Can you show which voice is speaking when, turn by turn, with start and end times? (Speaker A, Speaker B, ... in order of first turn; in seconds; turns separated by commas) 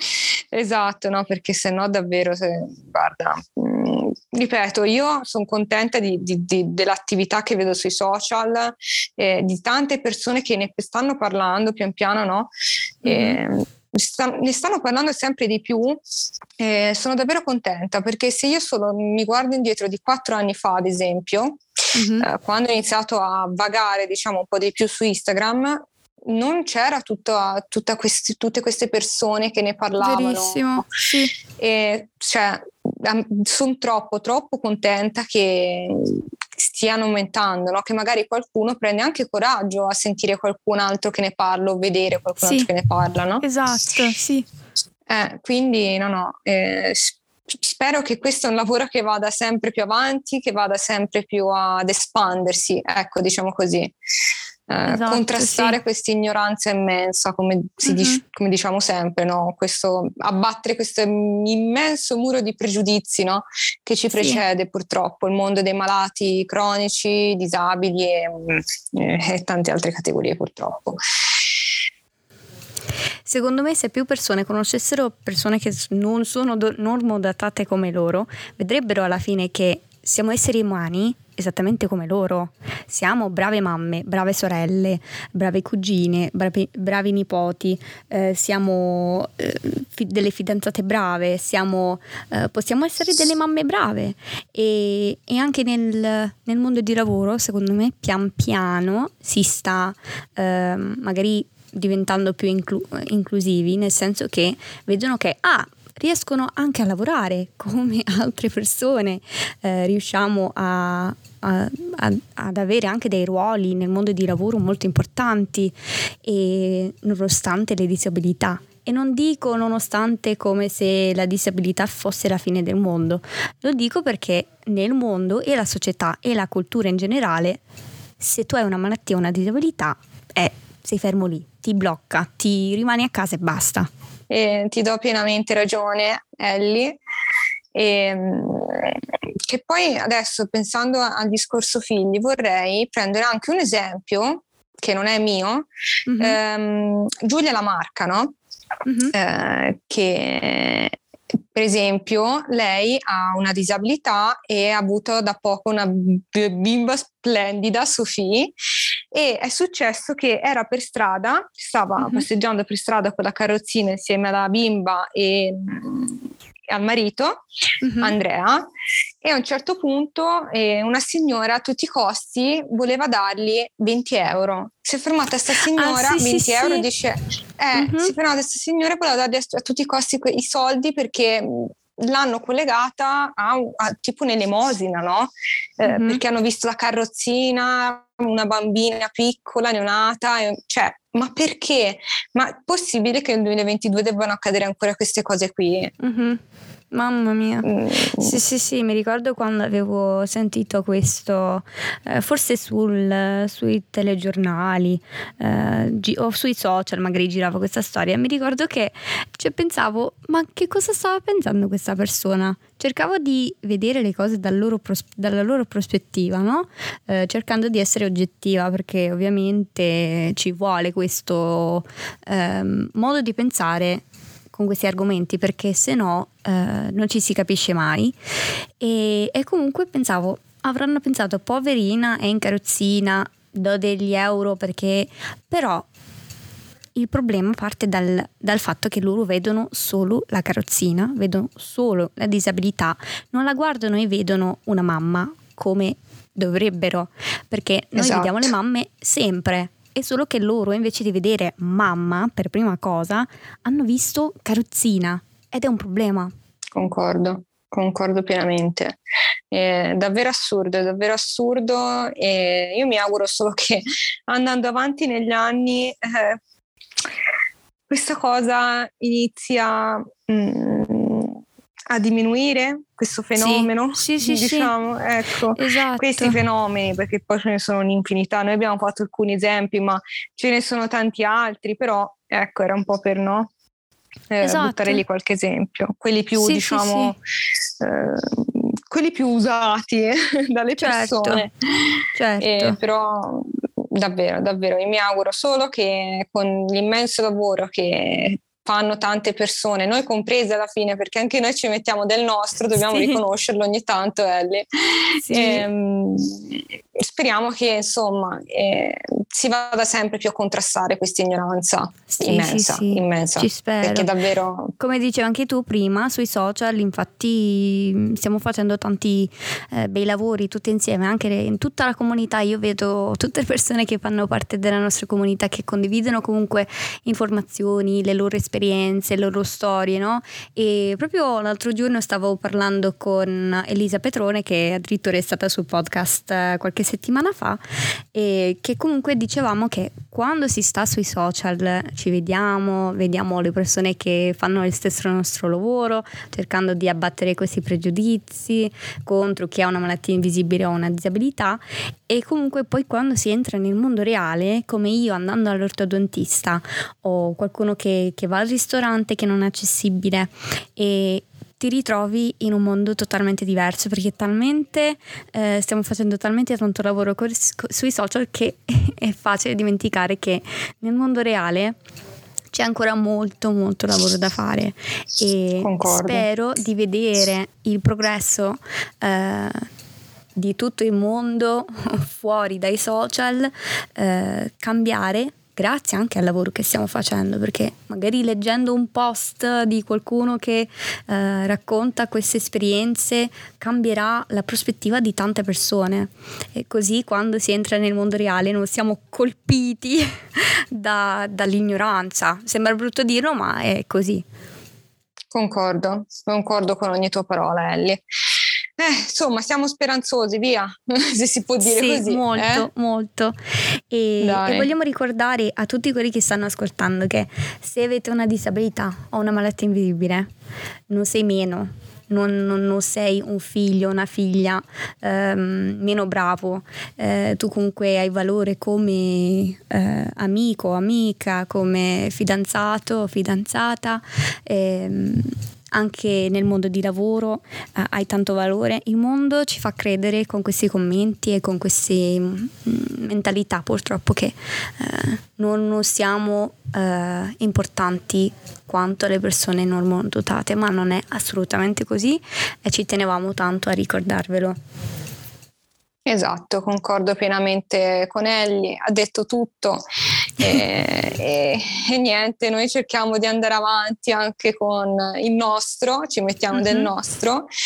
Speaker A: 0.5-12.5, Speaker A: 13.0-16.0, Speaker B: 13.1-13.4, Speaker A: 16.6-21.6, Speaker B: 21.9-22.3, Speaker A: 22.2-30.9, Speaker B: 30.0-31.3, Speaker A: 31.6-43.4, Speaker B: 42.4-42.7, Speaker B: 43.4-44.5, Speaker A: 45.1-53.9, Speaker A: 54.7-71.0, Speaker B: 54.9-55.8, Speaker B: 57.9-58.2, Speaker B: 64.1-64.4, Speaker B: 73.2-127.6, Speaker B: 128.2-133.9, Speaker A: 134.3-137.0, Speaker A: 137.8-145.7, Speaker B: 146.1-146.4, Speaker A: 146.2-148.3, Speaker B: 148.9-149.1, Speaker A: 149.1-150.9, Speaker A: 151.5-158.6, Speaker A: 159.1-167.4, Speaker B: 162.0-162.2, Speaker B: 167.8-168.2, Speaker A: 168.0-168.7, Speaker A: 169.2-195.9, Speaker B: 175.7-176.9, Speaker B: 177.7-178.1, Speaker B: 185.8-186.2, Speaker B: 196.0-196.4, Speaker B: 196.9-228.2, Speaker A: 197.7-198.3, Speaker B: 228.8-235.8, Speaker B: 236.9-256.3, Speaker A: 248.0-248.5, Speaker A: 256.8-259.0, Speaker A: 259.5-266.4, Speaker A: 267.9-271.4, Speaker A: 271.9-283.5, Speaker B: 273.4-274.7, Speaker B: 275.5-276.4, Speaker A: 284.3-287.2, Speaker B: 284.4-285.0, Speaker B: 286.4-287.1, Speaker A: 287.8-291.9, Speaker B: 290.8-291.4, Speaker B: 292.1-292.8, Speaker A: 292.4-304.7, Speaker B: 302.7-303.2, Speaker B: 305.2-305.7, Speaker A: 305.3-314.7, Speaker B: 312.1-314.1, Speaker B: 314.8-337.6, Speaker B: 338.1-371.8, Speaker B: 372.5-379.6, Speaker A: 375.6-376.2, Speaker B: 380.4-404.2, Speaker A: 405.3-408.0, Speaker A: 408.8-412.7, Speaker B: 411.6-413.4, Speaker B: 413.9-420.3, Speaker A: 414.2-414.7, Speaker B: 420.9-454.6, Speaker A: 456.1-459.9, Speaker A: 460.4-467.5, Speaker B: 466.5-466.9